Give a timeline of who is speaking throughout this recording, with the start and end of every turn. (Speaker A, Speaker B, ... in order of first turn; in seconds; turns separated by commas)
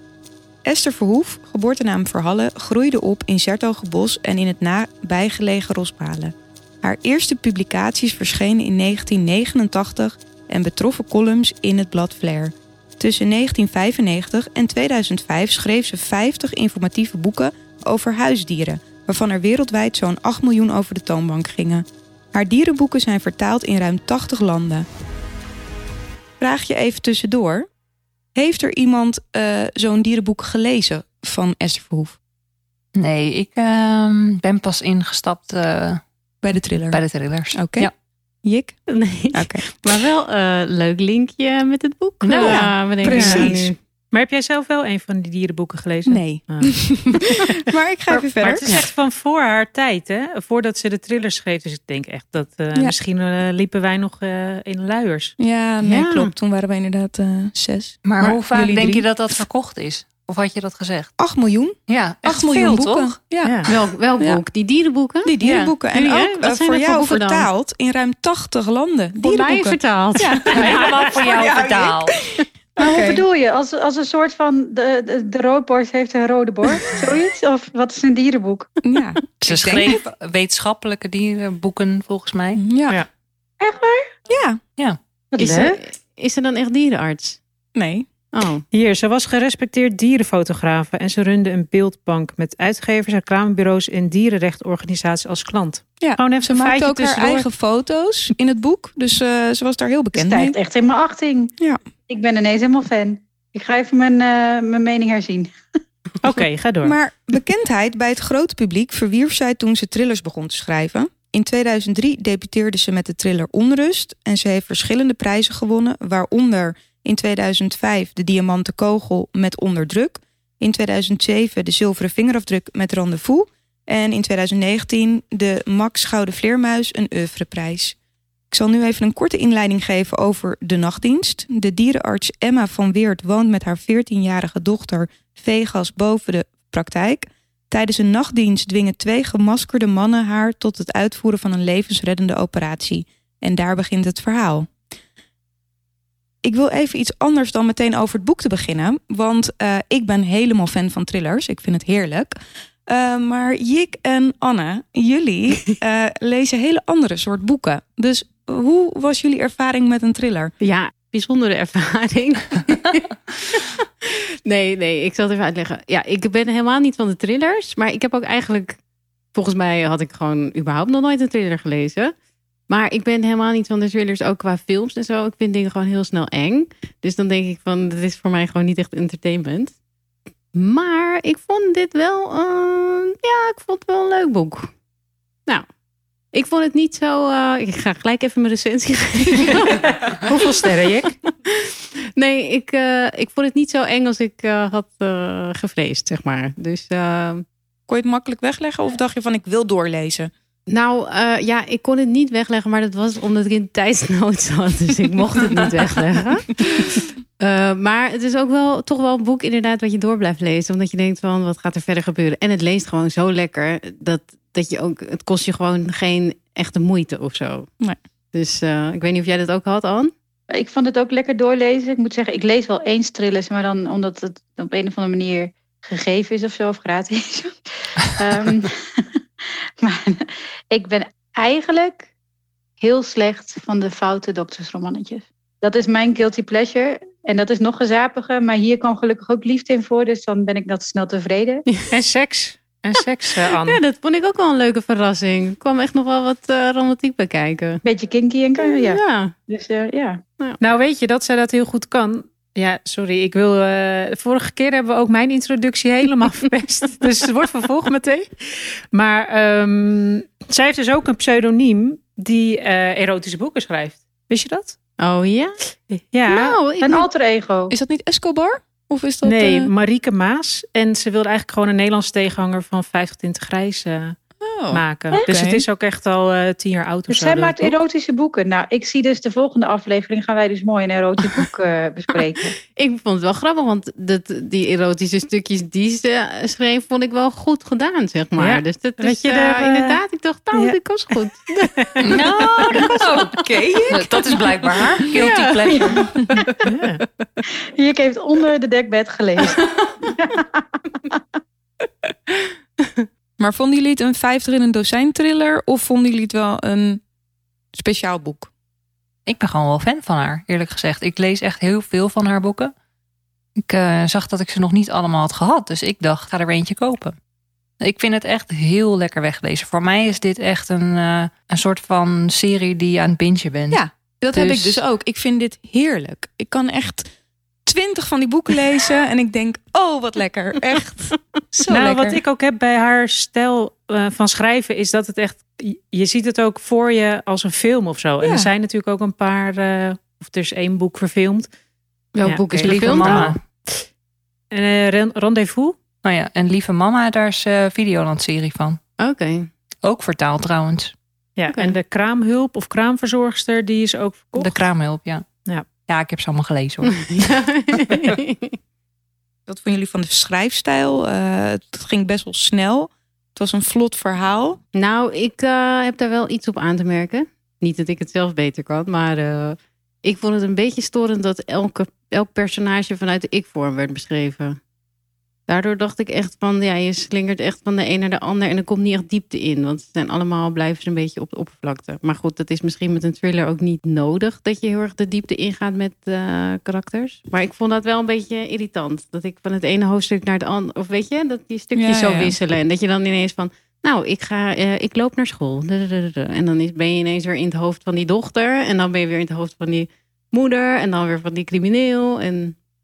Speaker A: 0.7-24.9, Speaker A: 26.4-27.7, Speaker A: 28.4-32.2, Speaker B: 33.0-36.0, Speaker A: 36.4-37.9, Speaker B: 36.9-37.9, Speaker A: 38.4-38.8, Speaker C: 38.9-43.8, Speaker A: 39.3-39.7, Speaker A: 42.3-43.7, Speaker D: 42.5-43.5, Speaker D: 44.1-55.4, Speaker A: 46.1-48.7, Speaker A: 55.4-59.4, Speaker C: 55.8-56.3, Speaker B: 58.0-61.1, Speaker A: 61.2-64.4, Speaker B: 61.9-63.2, Speaker C: 63.6-65.4, Speaker A: 65.2-73.2, Speaker D: 65.4-65.7, Speaker C: 65.9-67.5, Speaker C: 69.2-71.3, Speaker B: 70.5-72.2, Speaker E: 72.8-78.7, Speaker A: 78.8-80.0, Speaker B: 79.4-82.6, Speaker A: 82.5-83.0, Speaker E: 83.6-84.1, Speaker A: 84.3-84.6, Speaker E: 85.3-85.8, Speaker C: 85.4-87.4, Speaker A: 87.8-88.1, Speaker C: 88.3-88.6, Speaker D: 88.7-97.5, Speaker A: 96.0-100.6, Speaker E: 100.1-101.5, Speaker E: 102.1-105.5, Speaker D: 106.2-107.0, Speaker A: 106.8-128.0, Speaker A: 128.5-144.7, Speaker A: 146.4-152.3, Speaker A: 152.9-160.5, Speaker C: 160.6-168.8, Speaker C: 169.3-172.1, Speaker C: 172.7-179.8, Speaker C: 180.5-184.7, Speaker C: 186.3-189.9, Speaker D: 189.6-191.2, Speaker C: 191.5-197.4, Speaker A: 197.9-200.3, Speaker C: 200.7-217.7, Speaker C: 218.3-220.1, Speaker E: 220.5-229.1, Speaker E: 229.8-232.1, Speaker E: 232.8-241.7, Speaker D: 241.9-243.8, Speaker C: 243.5-247.8, Speaker E: 247.8-250.2, Speaker C: 248.6-249.3, Speaker D: 250.6-264.8, Speaker C: 265.0-265.6, Speaker D: 265.9-266.6, Speaker C: 266.3-267.1, Speaker E: 266.8-267.7, Speaker A: 267.7-269.7, Speaker D: 269.2-274.2, Speaker A: 274.4-275.6, Speaker D: 274.7-277.8, Speaker E: 277.1-282.6, Speaker C: 282.8-291.5, Speaker D: 288.4-290.0, Speaker D: 291.6-292.2, Speaker B: 292.0-292.9, Speaker A: 292.7-294.4, Speaker B: 293.9-296.1, Speaker C: 295.2-295.8, Speaker E: 295.7-296.0, Speaker A: 296.0-296.6, Speaker D: 296.7-297.0, Speaker E: 297.8-301.2, Speaker A: 303.4-307.0, Speaker A: 307.7-308.5, Speaker B: 309.3-312.7, Speaker B: 313.6-317.2, Speaker B: 317.8-323.8, Speaker A: 323.7-327.1, Speaker B: 324.3-324.7, Speaker A: 327.6-332.2, Speaker D: 331.7-341.5, Speaker A: 338.2-338.5, Speaker C: 342.1-343.4, Speaker D: 342.2-343.4, Speaker B: 342.6-343.4, Speaker D: 344.5-345.8, Speaker B: 346.0-348.8, Speaker C: 349.0-349.5, Speaker B: 349.8-350.9, Speaker D: 351.4-354.6, Speaker C: 351.5-351.8, Speaker B: 354.4-355.2, Speaker B: 355.9-358.1, Speaker C: 357.1-358.6, Speaker A: 359.5-364.6, Speaker C: 364.8-374.6, Speaker C: 375.5-402.6, Speaker A: 391.8-392.4